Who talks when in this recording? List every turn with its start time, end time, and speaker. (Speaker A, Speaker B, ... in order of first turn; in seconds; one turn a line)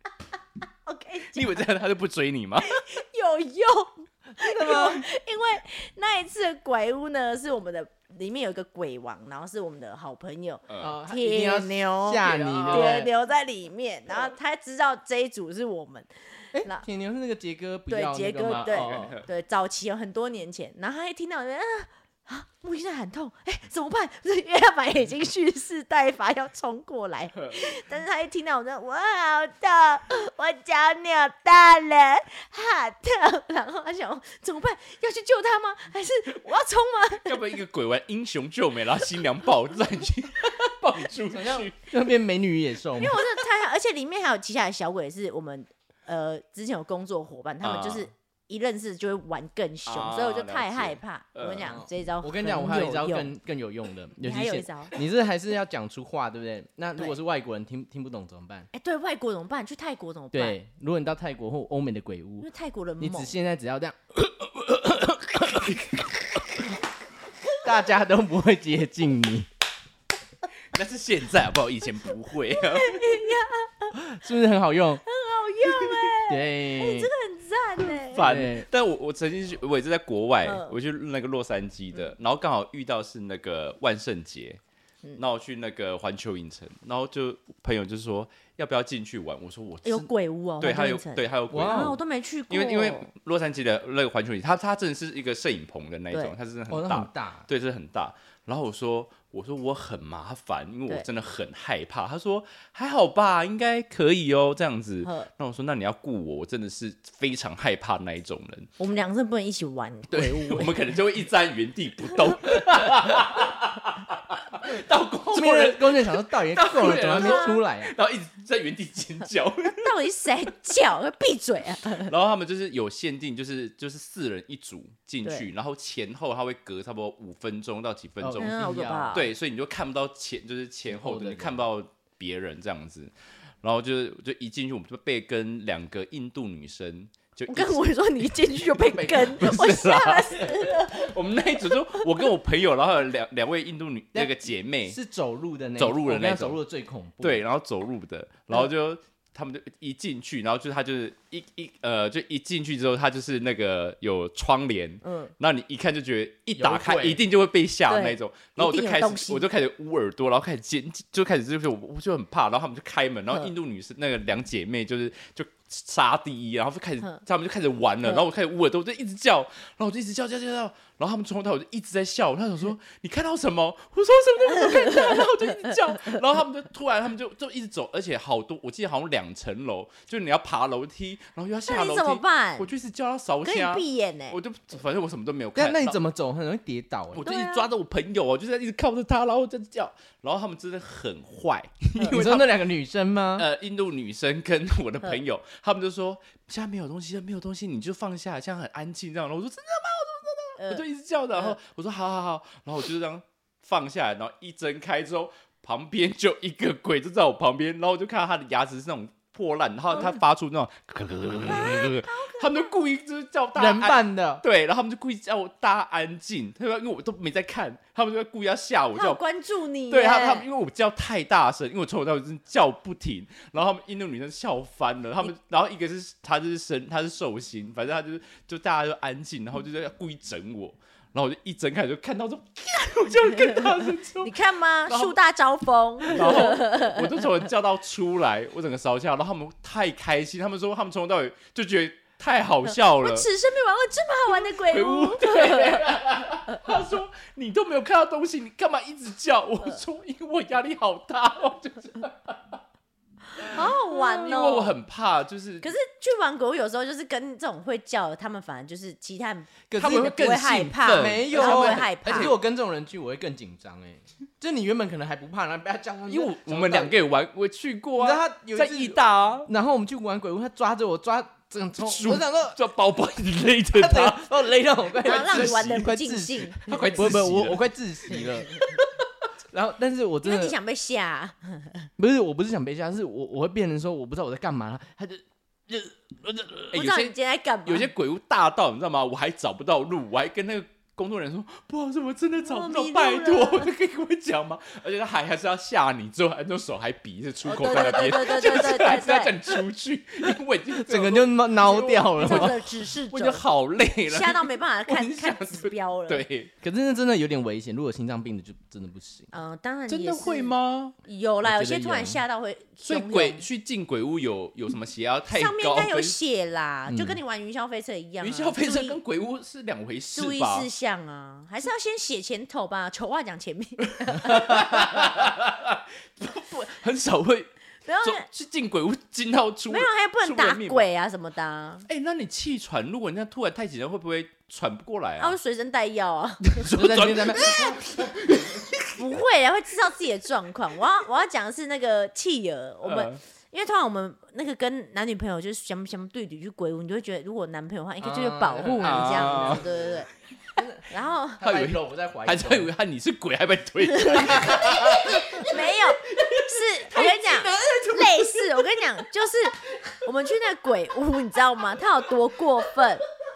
Speaker A: 0.9-1.6
Speaker B: 1.3-2.8
Speaker A: 2.6-16.9
Speaker C: 4.4-5.0
Speaker B: 10.7-10.9
Speaker C: 10.8-13.1
Speaker B: 12.2-13.1
Speaker C: 16.5-19.1
Speaker A: 17.9-37.4
Speaker B: 18.5-19.3
Speaker B: 37.1-41.8
Speaker C: 41.3-43.2
Speaker A: 43.0-53.3
Speaker B: 47.6-48.1
Speaker B: 49.9-51.8
Speaker C: 51.6-58.7
Speaker A: 54.2-54.9
Speaker A: 58.7-60.6
Speaker C: 60.3-62.5
Speaker A: 62.4-63.3
Speaker C: 63.0-65.8
Speaker C: 67.6-69.5
Speaker B: 70.7-73.2
Speaker A: 72.5-74.0
Speaker C: 73.9-75.0
Speaker A: 75.0-78.3
Speaker C: 76.3-77.1
Speaker B: 78.0-84.6
Speaker C: 78.2-78.7
Speaker A: 80.5-80.7
Speaker B: 85.2-90.1
Speaker A: 89.8-93.1
Speaker B: 90.6-92.0
Speaker C: 91.5-92.0
Speaker B: 92.5-108.7
Speaker C: 96.7-97.5
Speaker A: 105.0-105.3
Speaker A: 108.8-110.7
Speaker B: 110.1-119.9
Speaker C: 110.2-110.7
Speaker C: 115.3-118.0
Speaker A: 117.2-117.6
Speaker A: 119.7-122.1
Speaker B: 122.0-128.6
Speaker C: 128.2-129.2
Speaker A: 128.4-129.3
Speaker B: 129.1-133.1
Speaker C: 130.9-131.7
Speaker B: 133.6-137.8
Speaker A: 137.5-142.1
Speaker C: 138.9-139.3
Speaker B: 138.9-145.0
Speaker C: 144.1-147.4
Speaker B: 145.8-146.6
Speaker B: 147.2-186.0
Speaker A: 155.0-155.3
Speaker C: 156.6-157.2
Speaker A: 157.9-159.5
Speaker A: 174.5-176.2
Speaker A: 181.7-182.7
Speaker A: 183.4-184.4
Speaker C: 185.6-187.2
Speaker B: 187.1-192.6
Speaker A: 187.2-187.7
Speaker C: 192.1-193.5
Speaker B: 193.4-219.2
Speaker A: 211.5-212.8
Speaker C: 213.6-214.4
Speaker A: 218.9-220.5
Speaker B: 219.9-234.3
Speaker A: 233.4-233.7
Speaker A: 234.2-237.2
Speaker B: 234.9-235.2
Speaker B: 236.0-243.3
Speaker A: 242.7-245.9
Speaker B: 244.6-252.5
Speaker B: 253.4-255.7
Speaker A: 253.4-254.8
Speaker A: 255.6-262.4
Speaker C: 259.7-260.1
Speaker B: 259.8-262.3
Speaker C: 260.9-267.0
Speaker B: 266.1-269.5
Speaker C: 268.0-272.6
Speaker B: 271.8-275.9
Speaker C: 273.7-278.5
Speaker A: 275.0-277.0
Speaker B: 276.6-278.2
Speaker C: 279.5-280.6
Speaker A: 280.2-281.9
Speaker C: 282.0-286.7
Speaker A: 286.7-287.9
Speaker B: 286.7-306.5
Speaker A: 292.4-293.7
Speaker A: 297.4-299.6
Speaker C: 300.8-302.7
Speaker A: 302.1-303.4
Speaker A: 304.1-306.2
Speaker C: 306.6-309.3
Speaker A: 309.3-313.4
Speaker B: 309.9-310.9
Speaker C: 311.4-312.2
Speaker B: 312.8-316.1
Speaker A: 315.3-319.0
Speaker C: 316.9-317.2
Speaker B: 318.2-320.7
Speaker A: 320.1-325.0
Speaker B: 324.1-327.5
Speaker A: 327.9-328.3
Speaker B: 328.0-330.9
Speaker A: 329.7-331.9
Speaker B: 331.9-335.4
Speaker A: 335.2-336.6
Speaker B: 336.4-338.8
Speaker C: 336.7-338.4
Speaker A: 338.9-350.1
Speaker B: 342.9-343.2
Speaker C: 348.0-349.9
Speaker B: 348.8-349.6
Speaker C: 350.6-350.9
Speaker A: 350.9-351.4
Speaker C: 351.4-352.7
Speaker B: 351.4-355.5
Speaker A: 353.9-363.0
Speaker C: 354.3-355.6
Speaker C: 356.2-358.4